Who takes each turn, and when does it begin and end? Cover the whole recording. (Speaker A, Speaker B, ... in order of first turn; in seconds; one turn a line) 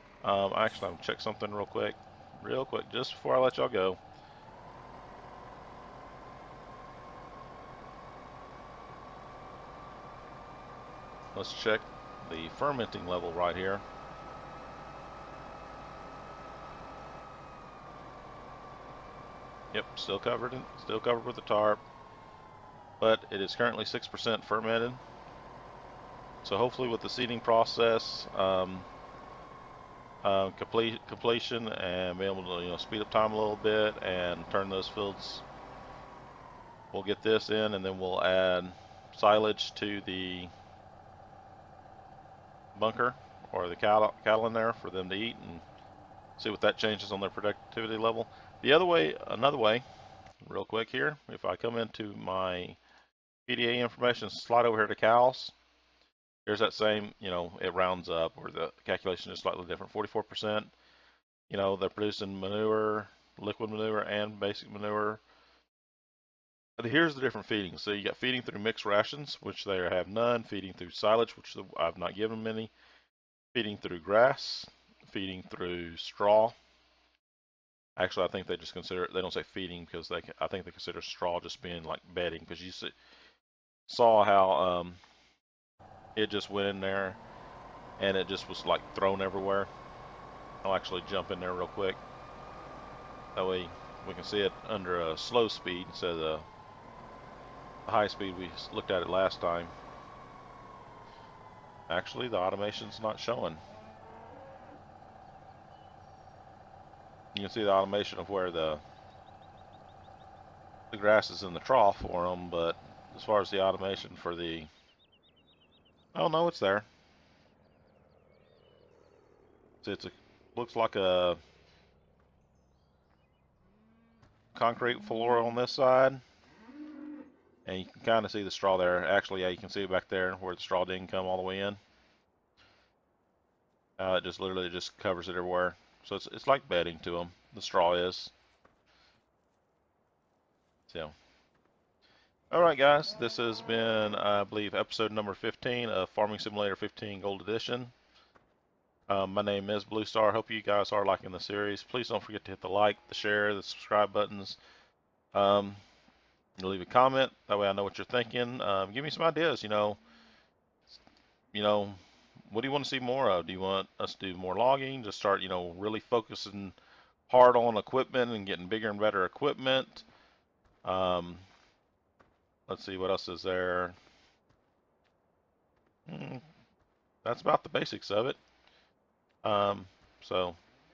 Speaker A: 0.2-4.0
Speaker A: 11.3-13.8
Speaker A: 19.7-21.8
Speaker A: 23.0-25.0
Speaker A: 26.4-28.9
Speaker A: 30.2-35.4
Speaker A: 36.9-40.5
Speaker A: 42.7-45.6
Speaker A: 46.4-49.8
Speaker A: 50.4-52.8
Speaker A: 53.5-55.5
Speaker A: 56.5-60.7
Speaker A: 61.5-65.2
Speaker A: 66.8-72.7
Speaker A: 73.5-76.5
Speaker A: 78.0-82.9
Speaker A: 83.9-85.0
Speaker A: 86.2-87.2
Speaker A: 88.0-89.7
Speaker A: 90.6-92.0
Speaker A: 93.3-96.4
Speaker A: 97.8-99.7
Speaker A: 101.9-103.6
Speaker A: 107.3-108.8
Speaker A: 110.9-114.7
Speaker A: 116.1-116.9
Speaker A: 119.8-121.4
Speaker A: 124.5-126.2
Speaker A: 127.7-131.8
Speaker A: 134.0-138.3
Speaker A: 140.9-141.1
Speaker A: 142.5-147.9
Speaker A: 149.1-154.6
Speaker A: 155.3-155.8
Speaker A: 156.6-160.0
Speaker A: 161.5-166.8
Speaker A: 167.3-170.0
Speaker A: 170.8-171.4
Speaker A: 172.7-173.9
Speaker A: 176.1-176.4
Speaker A: 177.2-178.4
Speaker A: 179.4-180.6